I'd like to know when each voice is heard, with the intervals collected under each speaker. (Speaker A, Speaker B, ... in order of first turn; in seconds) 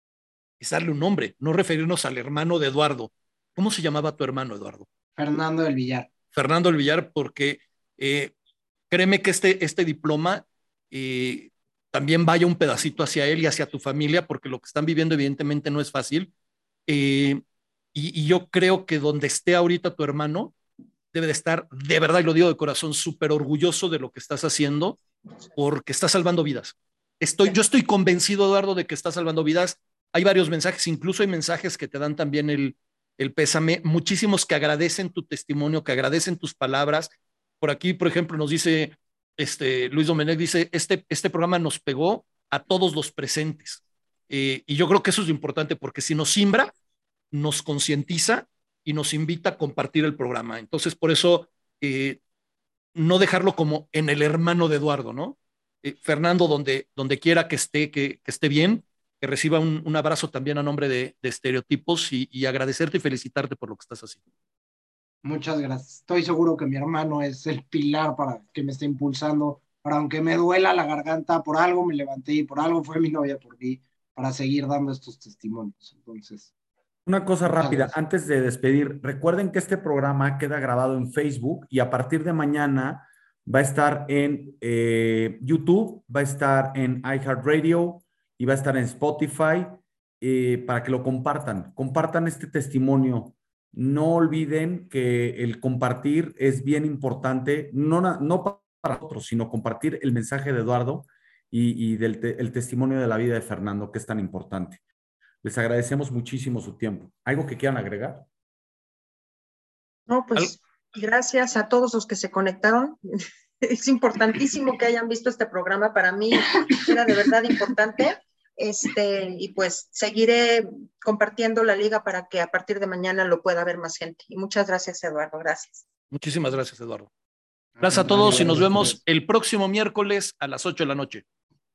Speaker A: 0.6-4.9, 6.3-8.3, 8.9-16.3, 16.9-17.4, 17.9-20.6, 21.1-25.0, 25.6-46.7, 47.3-52.2, 53.0-64.2, 126.1-127.1, 127.8-131.2
Speaker B: 5.2-6.1, 65.2-76.5, 77.5-78.0, 127.8-129.0
Speaker C: 77.1-104.8, 105.4-108.3
Speaker D: 110.1-113.0, 113.6-125.8